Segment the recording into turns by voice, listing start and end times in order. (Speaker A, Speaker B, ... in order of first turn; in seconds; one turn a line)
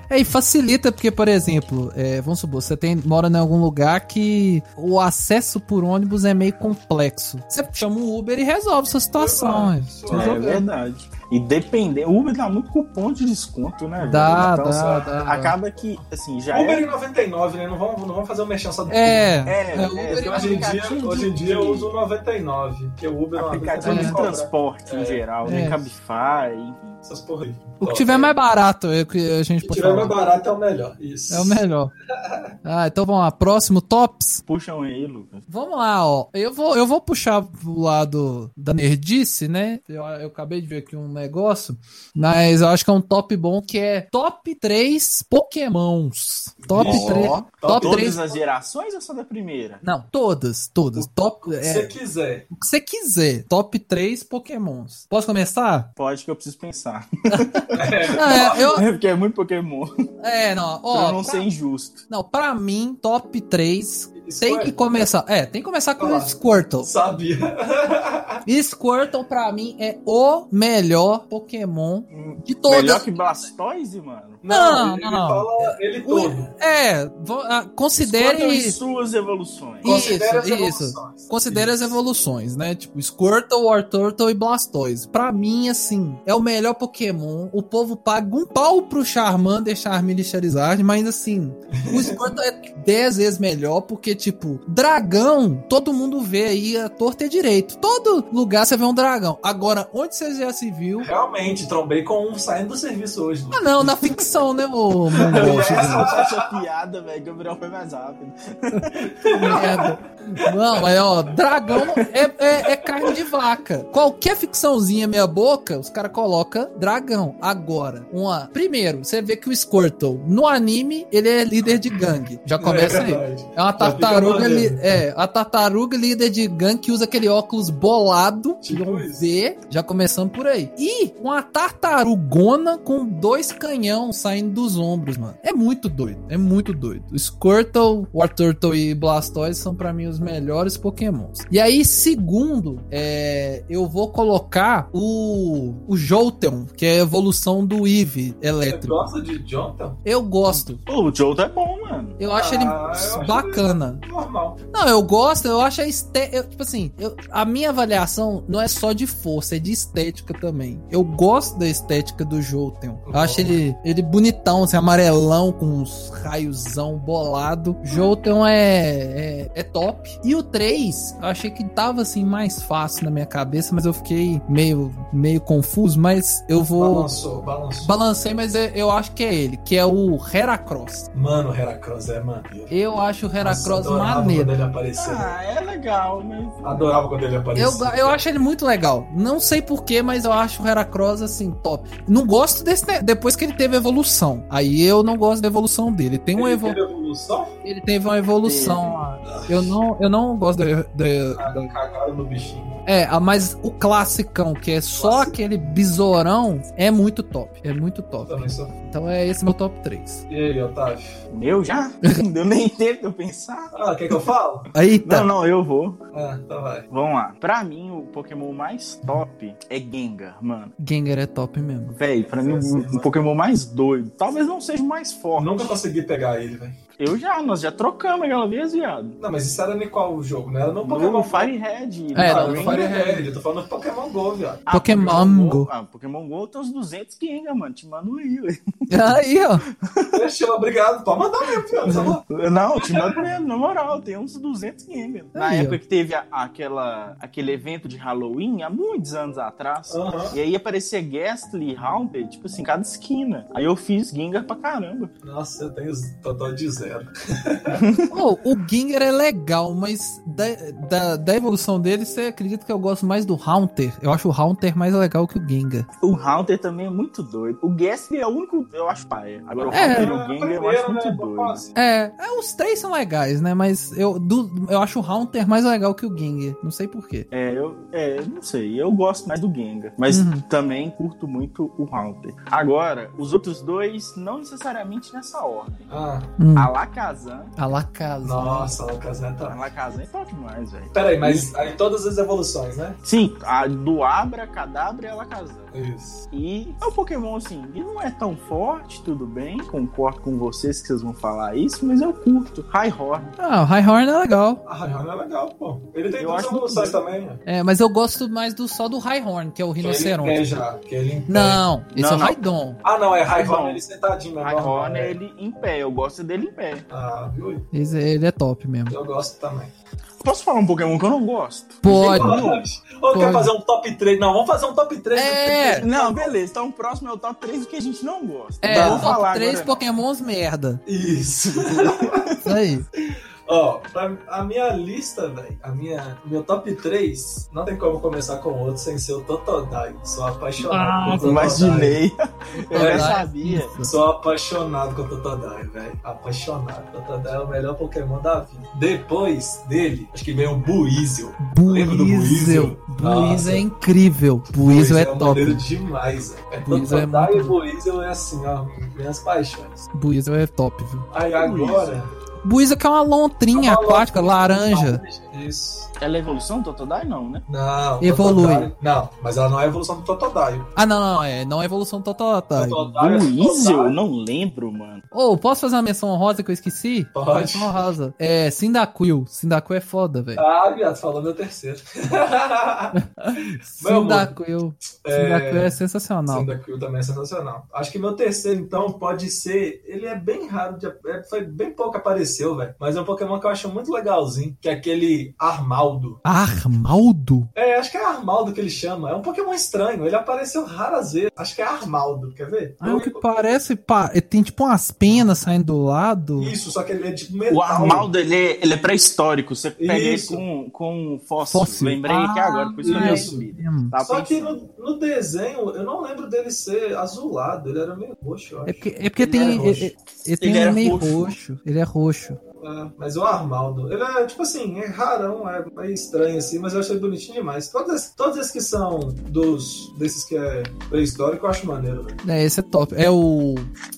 Speaker A: 0.1-10.6
Speaker B: 9.2-10.4
Speaker C: 10.1-16.9
Speaker A: 14.0-15.5
Speaker B: 14.7-15.1
Speaker B: 16.5-19.5
Speaker A: 18.9-20.6
Speaker C: 19.4-21.9
Speaker B: 20.1-25.2
Speaker C: 23.3-27.0
Speaker A: 23.8-24.2
Speaker A: 25.4-25.8
Speaker B: 27.0-28.3
Speaker A: 27.8-30.2
Speaker B: 29.6-31.6
Speaker A: 31.3-31.9
Speaker B: 32.2-32.5
Speaker A: 32.6-34.4
Speaker C: 34.5-35.5
Speaker A: 35.5-48.2
Speaker B: 46.6-48.4
Speaker C: 46.7-49.8
Speaker A: 49.8-51.9
Speaker B: 51.0-52.5
Speaker A: 52.5-55.9
Speaker C: 56.0-59.9
Speaker A: 57.3-58.8
Speaker B: 57.7-58.8
Speaker A: 60.2-61.5
Speaker C: 60.9-62.0
Speaker A: 62.1-66.9
Speaker B: 64.2-64.8
Speaker B: 66.0-68.4
Speaker A: 68.5-73.1
Speaker C: 72.1-74.4
Speaker B: 74.4-76.5
Speaker A: 74.5-78.8
Speaker C: 78.0-80.1
Speaker A: 79.8-101.1
Speaker B: 79.8-81.9
Speaker B: 91.7-92.2
Speaker B: 101.0-104.0
Speaker A: 103.5-106.1
Speaker B: 105.2-106.6
Speaker C: 105.3-109.6
Speaker B: 109.0-110.0
Speaker A: 109.3-149.1
Speaker B: 122.6-124.8
Speaker B: 128.6-129.3
Speaker B: 148.7-150.0
Speaker A: 150.0-150.8
Speaker C: 150.8-152.2
Speaker A: 152.2-154.0
Speaker B: 152.3-154.6
Speaker A: 154.7-177.1
Speaker B: 163.1-163.6
Speaker B: 176.8-177.9
Speaker A: 177.8-181.1
Speaker B: 181.1-182.7
Speaker A: 182.7-184.5
Speaker B: 183.4-185.3
Speaker C: 184.9-186.9
Speaker B: 186.6-188.2
Speaker A: 187.5-196.8
Speaker B: 196.3-197.5
Speaker A: 197.6-201.7
Speaker C: 198.4-199.0
Speaker B: 199.3-199.7
Speaker B: 201.4-202.7
Speaker A: 202.8-210.2
Speaker B: 204.9-205.4
Speaker B: 208.3-208.8
Speaker B: 210.3-211.2
Speaker C: 211.3-213.7
Speaker B: 213.7-214.7
Speaker A: 214.7-215.3
Speaker C: 215.0-216.0
Speaker B: 216.1-216.8
Speaker C: 216.9-220.8
Speaker A: 220.8-222.0
Speaker C: 222.0-225.8
Speaker B: 222.1-223.1
Speaker B: 225.4-226.8
Speaker C: 227.0-229.2
Speaker B: 229.2-231.5
Speaker C: 230.8-233.0
Speaker A: 232.1-233.3
Speaker B: 232.2-234.7
Speaker C: 234.7-239.1
Speaker A: 234.7-235.7
Speaker A: 238.9-239.6
Speaker C: 239.8-240.2
Speaker B: 240.1-242.2
Speaker C: 241.8-255.1
Speaker B: 242.8-243.2
Speaker A: 245.3-245.8
Speaker B: 249.9-250.3
Speaker B: 255.2-257.9
Speaker C: 257.7-258.1
Speaker A: 258.1-265.9
Speaker C: 266.0-271.6
Speaker A: 269.7-270.1
Speaker B: 269.8-271.7
Speaker A: 271.8-277.3
Speaker C: 277.3-285.9
Speaker A: 280.1-280.4
Speaker B: 285.9-286.3
Speaker A: 286.4-286.7
Speaker C: 286.6-287.6
Speaker A: 287.6-288.8
Speaker B: 288.2-289.6
Speaker C: 289.5-291.5
Speaker B: 290.9-293.0
Speaker C: 293.0-295.7
Speaker B: 295.7-296.2
Speaker C: 296.3-303.3
Speaker A: 303.4-304.6
Speaker B: 304.6-307.4
Speaker C: 306.2-307.0
Speaker A: 307.4-310.6
Speaker B: 309.8-311.6
Speaker A: 311.3-312.8
Speaker C: 311.9-312.4
Speaker B: 312.8-315.1
Speaker C: 313.3-313.8
Speaker C: 314.4-316.8
Speaker B: 316.9-317.6
Speaker A: 317.7-319.0
Speaker B: 318.9-319.7
Speaker C: 320.2-322.6
Speaker A: 321.8-322.4
Speaker B: 321.9-326.4
Speaker A: 323.1-323.5
Speaker A: 325.1-325.9
Speaker C: 325.8-329.9
Speaker A: 328.6-330.8
Speaker B: 328.7-329.1
Speaker B: 330.9-332.3
Speaker C: 331.5-332.5
Speaker A: 332.4-332.8
Speaker B: 333.5-342.0
Speaker A: 340.6-341.8
Speaker C: 341.1-343.8
Speaker A: 342.6-343.9
Speaker B: 342.7-343.2
Speaker B: 343.8-353.7
Speaker A: 351.4-355.6
Speaker B: 354.5-359.9
Speaker A: 356.6-357.6
Speaker A: 359.9-361.1
Speaker B: 361.1-362.1
Speaker C: 361.4-361.9
Speaker A: 362.4-365.0
Speaker B: 363.5-365.9
Speaker C: 366.0-367.4
Speaker B: 367.5-370.7
Speaker A: 368.0-368.7
Speaker A: 370.8-372.9
Speaker B: 372.5-374.0
Speaker C: 373.0-375.0
Speaker A: 375.1-380.4
Speaker B: 377.1-377.9
Speaker B: 380.4-383.0
Speaker A: 382.9-386.5
Speaker B: 383.8-384.3
Speaker B: 385.0-385.7
Speaker B: 386.3-396.2
Speaker A: 396.2-397.5
Speaker B: 397.5-403.3
Speaker A: 402.8-406.5
Speaker B: 405.1-405.3
Speaker B: 406.4-408.1
Speaker C: 407.5-414.6
Speaker B: 409.8-410.4
Speaker A: 411.5-413.9
Speaker B: 412.8-413.4
Speaker B: 414.0-419.9
Speaker A: 418.6-422.4
Speaker C: 419.4-419.6
Speaker C: 420.4-421.4
Speaker B: 422.6-432.2
Speaker A: 432.2-433.7